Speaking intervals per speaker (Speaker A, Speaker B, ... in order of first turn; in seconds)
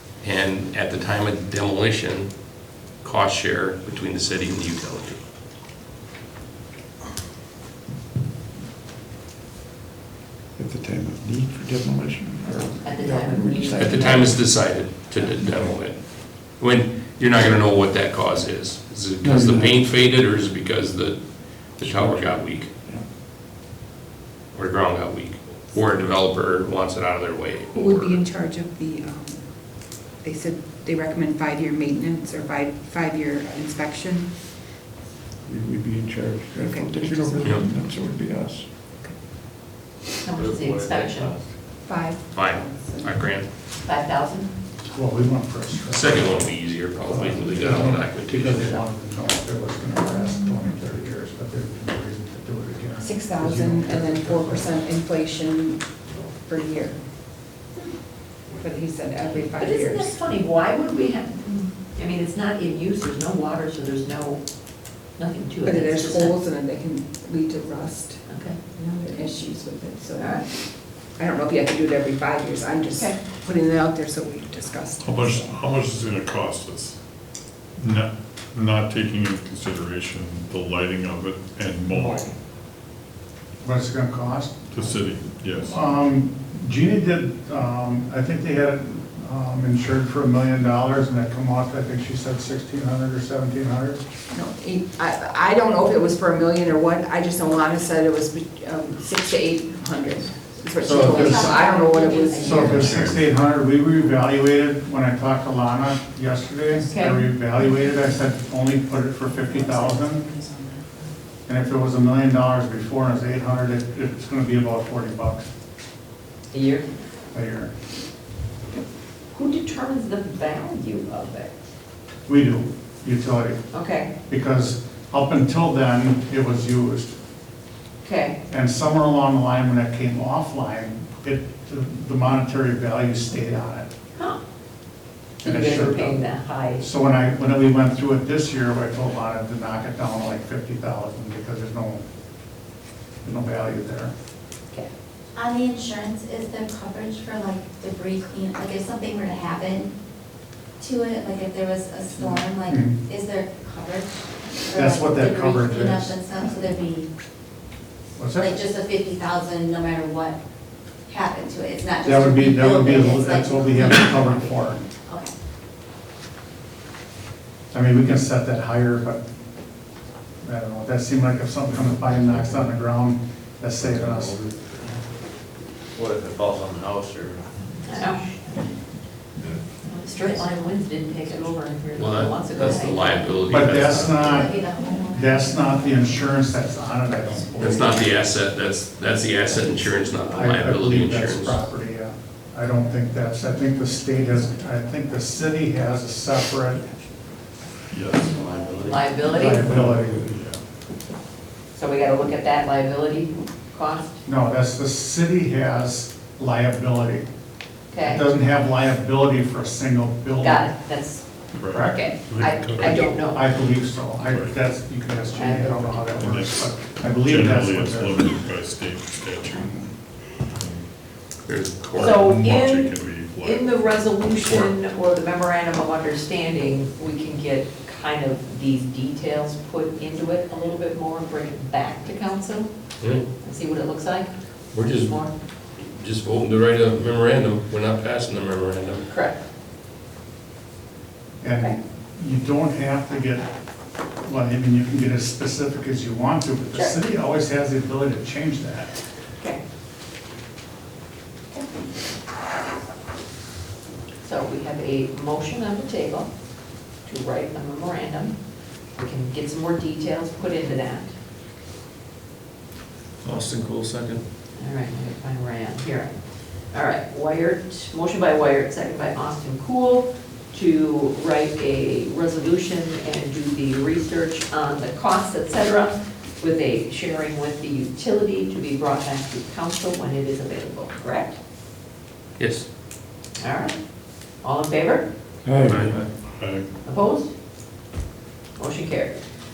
Speaker A: 0.2-2.3, 3.0-5.2, 13.7-22.7, 24.5-28.2, 42.3-43.5, 45.9-48.8, 181.9-184.5, 187.6-191.6, 221.5-222.1, 224.4-224.7, 233.0-233.3, 234.7-235.1, 235.8-239.1, 263.2-264.2, 282.4-282.7, 285.6-286.0
Speaker B: 10.6-14.5, 15.4-15.8, 19.2-19.8, 21.8-23.0, 35.5-38.7, 199.5-200.3, 285.4-286.0
Speaker C: 12.8-14.3, 40.2-41.4, 43.8-44.5, 59.6-64.4, 65.2-66.4, 68.3-68.6, 70.2-70.5, 72.9-73.2, 81.9-82.3, 101.7-102.3, 106.7-107.3, 116.5-116.9, 119.3-121.5, 123.7-124.1, 128.0-128.4, 134.2-134.4, 135.4-136.8, 177.8-178.2, 179.9-183.4, 198.8-199.7, 201.7-204.2, 207.9-208.2, 210.4-213.5, 215.3-216.1, 222.0-235.3, 239.1-239.4, 254.2-256.3, 257.1-258.4, 259.0-261.1, 264.6-266.2, 266.7-281.4, 283.4-283.8, 284.4-285.1, 286.8-287.3, 288.6-289.2
Speaker D: 27.7-29.4, 30.2-34.3, 36.6-37.6, 41.9-43.2, 53.0-57.0, 58.6-60.2, 65.6-70.5, 71.2-75.6, 94.3-102.9, 109.4-111.0, 194.1-194.8
Speaker E: 40.4-41.5, 173.9-174.9, 175.9-177.6
Speaker F: 44.9-46.5, 47.1-54.8, 83.6-84.8, 85.6-94.0, 100.9-101.6, 102.4-110.3, 111.5-115.5, 117.3-117.7, 122.3-123.6, 124.3-127.2, 128.5-133.9, 135.4-142.0, 143.2-144.1, 152.2-153.0, 154.7-156.2, 158.2-158.6, 162.0-164.9, 167.7-169.2, 170.4-174.5, 183.5-188.1, 190.3-196.8, 199.3-200.2, 204.2-207.3, 208.0-210.7, 211.7-212.1, 212.8-218.2, 241.4-243.5, 244.2-248.9
Speaker G: 75.0-77.0, 77.8-82.3, 84.7-85.8, 100.9-101.2, 102.5-103.2, 197.9-198.4, 199.6-200.6, 211.6-213.1, 214.2-214.6, 216.1-219.9, 220.5-220.9, 222.0-224.0, 286.3-286.7
Speaker H: 100.8-103.1, 145.3-149.9, 150.8-157.1, 158.4-160.4, 161.1-165.3, 180.2-180.5, 184.0-186.1, 198.6-198.9